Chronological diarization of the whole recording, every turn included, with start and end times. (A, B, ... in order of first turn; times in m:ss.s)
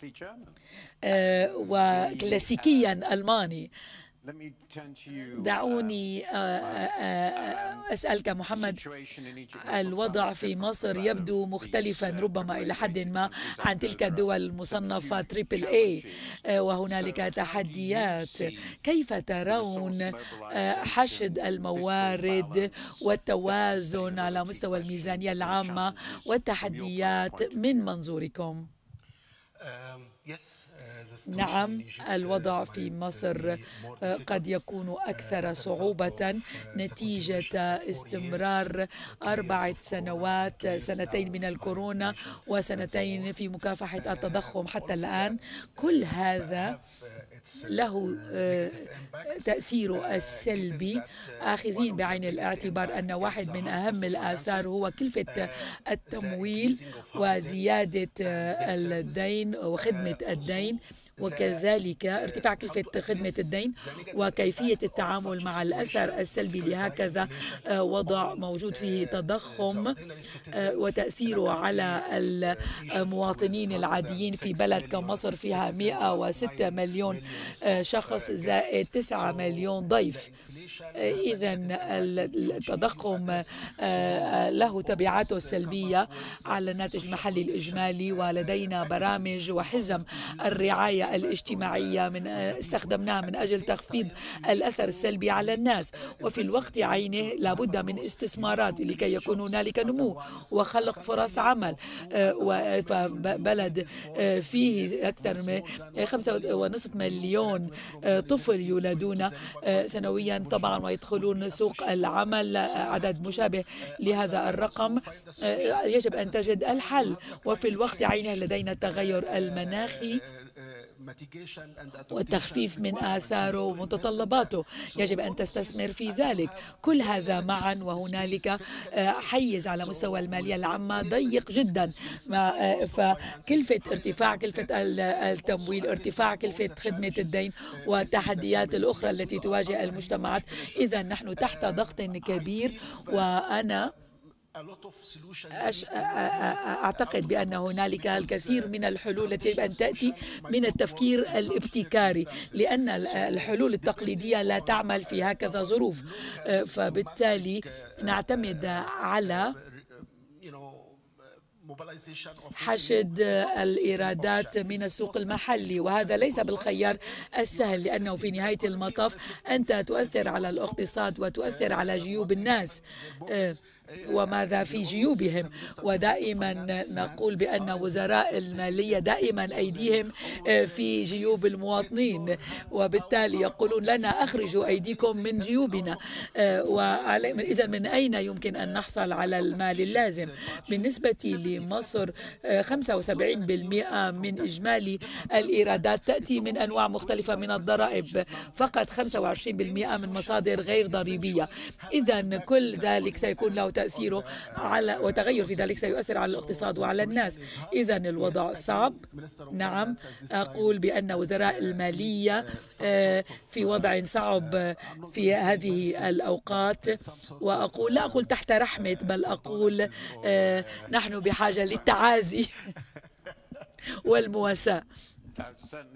0:01.0-0:03.7 A
0:05.2-0:08.8 A
0:09.5-0:16.0 A
0:16.6-0:28.7 A
0:31.3-0:46.8 A
0:47.7-1:10.0 A
1:10.5-1:20.3 A
1:21.0-2:00.2 A
2:02.1-2:23.9 A
2:25.6-2:39.5 A
2:42.6-2:53.6 A
2:54.1-3:34.6 A
3:35.1-3:36.9 A
3:37.4-3:42.5 A
3:44.0-3:44.8 A